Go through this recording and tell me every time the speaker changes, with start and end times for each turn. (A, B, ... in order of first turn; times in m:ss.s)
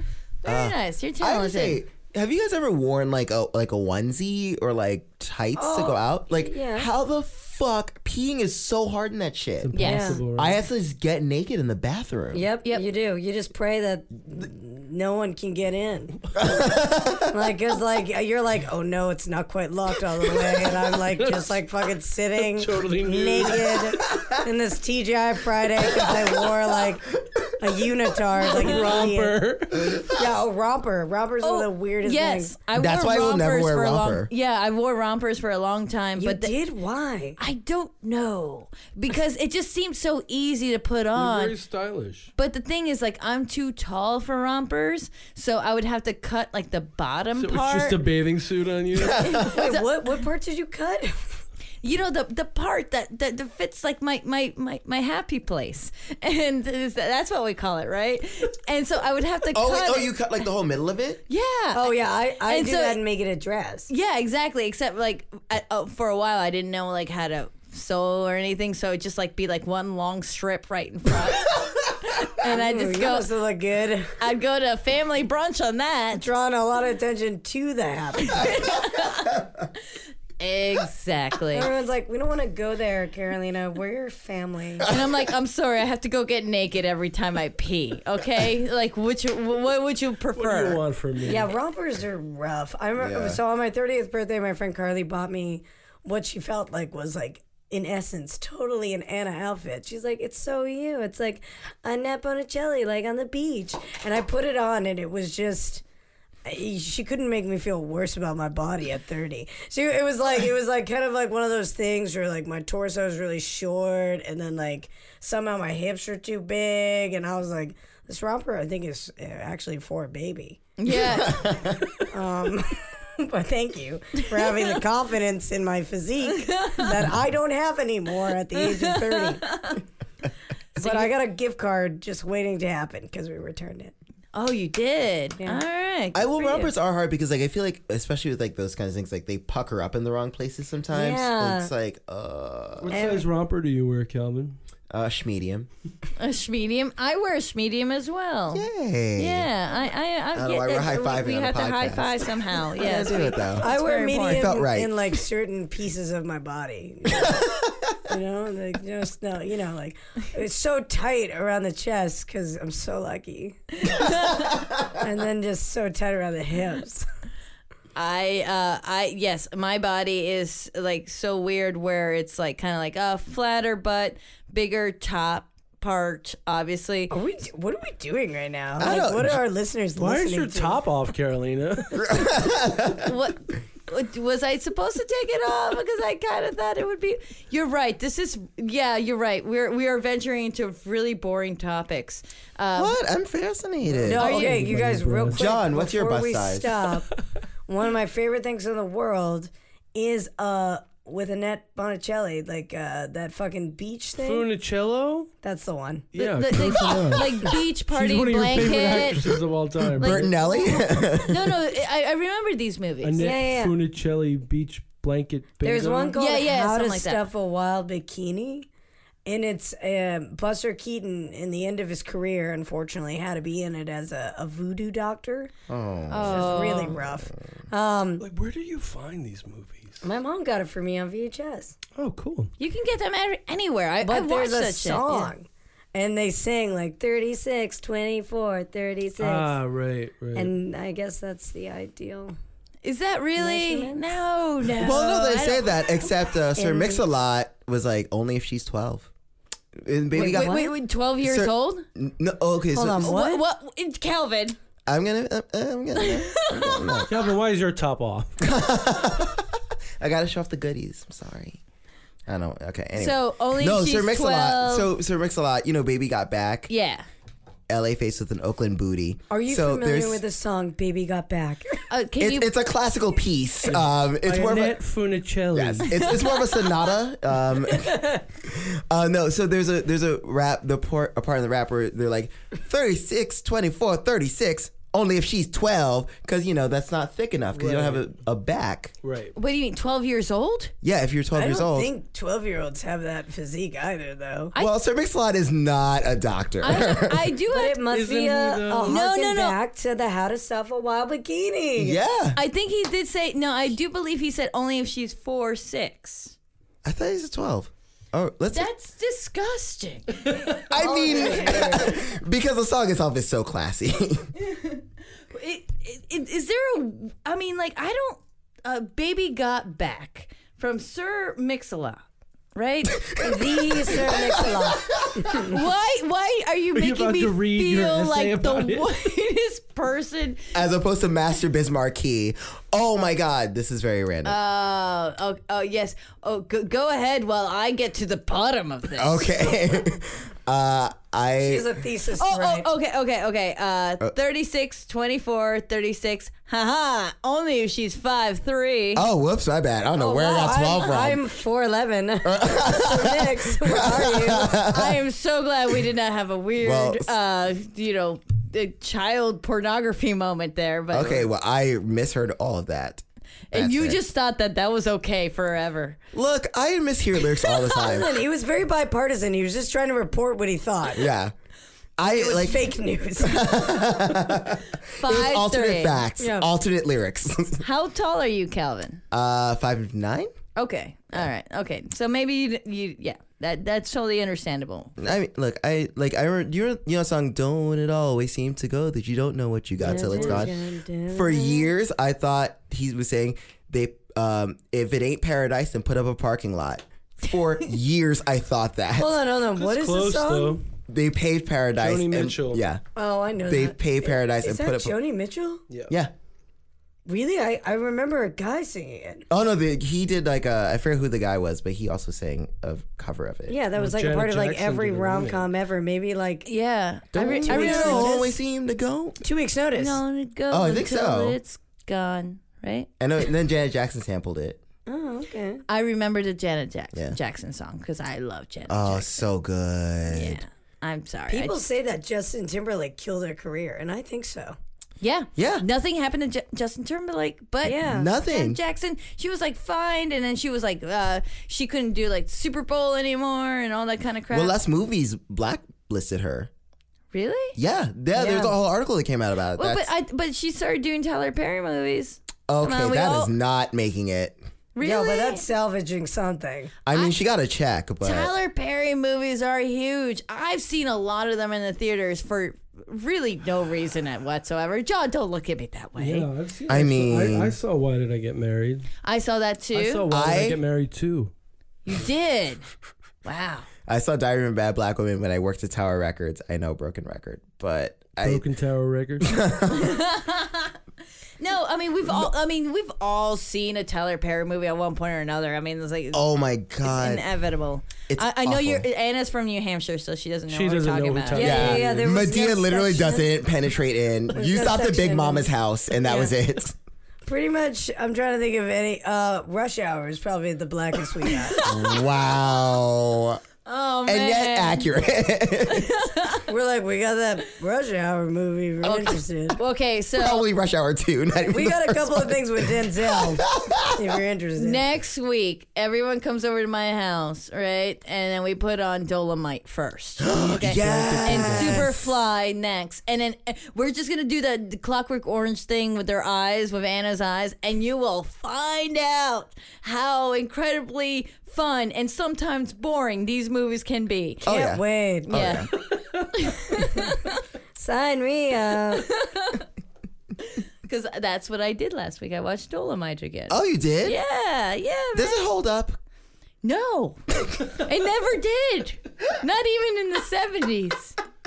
0:00.4-0:01.8 A
0:00.4-0:09.8 B
0:05.6-0:06.9 C
0:09.6-0:10.6 D
0:09.7-0:10.2 A
0:09.8-0:10.2 C
0:10.3-0:12.4 B
0:12.3-0:16.5 C
0:16.3-0:17.3 B
0:17.2-0:29.4 C
0:21.0-0:21.6 D
0:22.3-0:23.9 D
0:25.9-0:26.2 B
0:28.4-0:29.9 D
0:30.1-0:32.5 C
0:31.4-0:36.5 A
0:32.7-0:34.3 B
0:36.2-0:37.4 C
0:37.4-0:41.5 A
0:41.2-0:42.3 D
0:42.4-0:48.0 A
0:47.4-0:49.4 D
0:48.9-0:49.7 B
0:49.2-0:49.9 A
0:49.4-0:51.4 C
0:51.8-1:00.1 A
0:59.5-1:01.2 B
1:01.3-1:03.0 A
1:01.7-1:03.9 C
1:03.9-1:13.3 A
1:12.4-1:14.2 C
1:14.2-1:16.2 A
1:16.2-1:18.7 C
1:18.3-1:19.4 A
1:20.4-1:21.7 A
1:21.5-1:24.9 C
1:24.9-1:30.8 A
1:30.4-1:31.5 D
1:31.2-1:45.8 C
1:33.0-1:33.4 B
1:46.4-2:00.6 C
2:00.8-2:01.6 A
2:00.9-2:01.9 B
2:02.1-2:09.7 C
2:06.4-2:07.0 A
2:08.6-2:09.8 A
2:10.8-2:13.9 C
2:10.8-2:11.1 A
2:14.3-2:16.7 A
2:16.1-2:23.0 B
2:20.9-2:21.7 C
2:22.8-2:24.6 D
2:22.9-2:23.2 C
2:24.9-2:25.7 B
2:26.2-2:34.5 A
2:28.5-2:29.5 B
2:30.3-2:33.7 B
2:32.8-2:47.0 C
2:34.3-2:35.0 B
2:37.2-2:37.6 B
2:43.8-2:44.5 A
2:47.9-2:57.1 A
2:57.1-3:00.8 C
2:58.8-2:59.4 B
3:00.0-3:02.0 D
3:01.9-3:03.1 B
3:03.0-3:13.0 A
3:12.7-3:14.4 B
3:14.0-3:15.5 D
3:14.0-3:17.1 C
3:14.1-3:14.7 A
3:15.3-3:16.7 B
3:17.7-3:24.5 C
3:24.2-3:25.3 D
3:25.4-3:26.1 C
3:26.1-3:30.3 D
3:26.1-3:29.3 A
3:30.0-3:33.2 A
3:30.0-3:31.6 B
3:33.0-3:36.2 D
3:33.2-3:33.8 C
3:35.6-3:38.7 C
3:36.1-3:37.2 A
3:39.2-3:45.5 C
3:45.7-3:47.4 B
3:46.1-3:47.0 A
3:46.2-3:48.2 C
3:48.2-3:50.0 D
3:50.0-3:51.8 C
3:52.0-3:52.5 D
3:52.6-3:55.3 A
3:54.0-3:59.5 C
3:59.2-4:00.5 D
4:00.3-4:02.3 C
4:02.8-4:05.9 A
4:03.4-4:04.1 C
4:04.8-4:09.1 B
4:06.6-4:07.0 C
4:09.8-4:13.2 B
4:10.1-4:11.8 A
4:10.2-4:10.7 C
4:12.7-4:13.4 C
4:13.0-4:14.6 A
4:14.9-4:17.2 B
4:16.0-4:17.0 A
4:17.1-4:18.4 D
4:18.4-4:21.6 B
4:22.3-4:26.7 B
4:23.0-4:24.9 A
4:26.7-4:27.0 A
4:27.7-4:30.2 B
4:29.3-4:31.8 C
4:31.9-4:32.5 A
4:32.2-4:34.8 B
4:33.6-4:36.0 D
4:35.5-4:48.9 B
4:36.0-4:36.4 A
4:47.5-4:48.1 D
4:49.0-4:49.3 D
4:49.3-4:50.7 A
4:50.8-4:51.9 B
4:51.3-4:54.5 C
4:54.6-4:57.3 B
4:56.6-4:57.8 A
4:57.5-5:02.0 C
4:57.9-4:59.0 D
4:58.8-4:59.6 A
5:01.8-5:02.4 B
5:02.3-5:06.4 A
5:06.8-5:08.7 B
5:08.5-5:11.8 A
5:10.7-5:14.3 B
5:10.7-5:12.0 C
5:14.5-5:14.8 A
5:15.3-5:22.0 A
5:22.5-5:23.2 A
5:23.0-5:25.5 B
5:23.2-5:25.5 C
5:25.4-5:30.5 A
5:26.7-5:28.9 D
5:30.5-5:34.4 B
5:34.2-5:39.4 A
5:39.0-5:41.7 B
5:41.4-5:42.7 C
5:42.2-5:49.0 A
5:48.9-5:51.2 B
5:50.0-5:54.6 C
5:52.2-5:55.0 B
5:54.6-6:01.3 A
5:56.6-5:57.1 B
6:00.9-6:04.0 B
6:03.5-6:06.0 A
6:06.1-6:08.1 B
6:07.7-6:11.1 C
6:11.0-6:11.3 B
6:12.0-6:17.6 B
6:12.0-6:13.6 C
6:15.0-6:16.0 A
6:16.2-6:16.5 C
6:17.6-6:19.0 A
6:19.1-6:20.3 B
6:20.6-6:25.0 A
6:25.0-6:39.2 B
6:29.8-6:31.7 C
6:29.9-6:30.5 D
6:39.0-6:40.6 C
6:39.5-6:40.6 D
6:40.9-6:42.8 B
6:41.8-6:42.6 D
6:43.0-6:45.6 C
6:43.5-6:45.0 B
6:45.7-6:45.9 D
6:47.1-6:49.2 C
6:49.3-6:53.6 B
6:53.5-6:56.5 C
6:53.7-6:55.5 D
6:56.4-6:58.3 A
6:57.1-6:58.3 C
6:57.2-6:59.2 B
6:59.2-7:00.0 C
6:59.8-7:02.9 A
7:00.5-7:01.4 B
7:03.0-7:04.6 B
7:04.8-7:05.6 C
7:05.7-7:09.2 A
7:08.7-7:10.4 B
7:10.1-7:11.6 A
7:11.3-7:14.5 C
7:15.0-7:24.5 A
7:15.4-7:15.6 B
7:17.6-7:18.1 C
7:17.8-7:18.6 B
7:24.3-7:26.5 B
7:27.1-7:27.6 A
7:27.5-7:29.9 B
7:28.1-7:28.5 C
7:29.6-7:33.3 A
7:32.5-7:34.4 B
7:34.7-7:35.4 A
7:34.8-7:36.7 C
7:36.8-7:38.3 B
7:38.0-7:46.3 A
7:46.0-7:48.9 D
7:46.7-7:47.6 B
7:49.0-7:50.0 A
7:49.7-7:51.3 D
7:50.1-7:50.6 B
7:51.8-7:52.6 A
7:53.2-7:53.7 A
7:53.9-7:58.4 B
7:58.2-7:59.4 D
7:59.2-8:00.0 B
7:59.7-8:00.8 A
8:01.4-8:06.2 A
8:06.1-8:07.3 B
8:06.8-8:11.8 A
8:08.1-8:08.8 B
8:10.5-8:12.1 D
8:11.4-8:13.3 C
8:11.4-8:16.8 B
8:14.3-8:15.5 C
8:16.0-8:16.3 C
8:17.2-8:21.6 C
8:21.5-8:22.0 A
8:21.6-8:23.4 B
8:23.6-8:24.8 A
8:24.0-8:26.0 B
8:25.7-8:26.4 A
8:26.5-8:29.6 C
8:28.8-8:29.2 B
8:29.5-8:30.4 A
8:30.2-8:34.2 B
8:31.5-8:34.8 C
8:34.6-8:54.5 A
8:40.2-8:42.1 B
8:40.6-8:41.9 D
8:54.4-8:55.7 B
8:54.4-8:55.4 C
8:55.3-8:55.7 A
8:56.3-8:57.4 A
8:56.7-8:57.1 C
8:57.7-8:59.2 C
8:59.0-8:59.6 A
9:00.4-9:05.4 A
9:03.5-9:04.2 B
9:05.1-9:06.0 B
9:06.6-9:11.2 A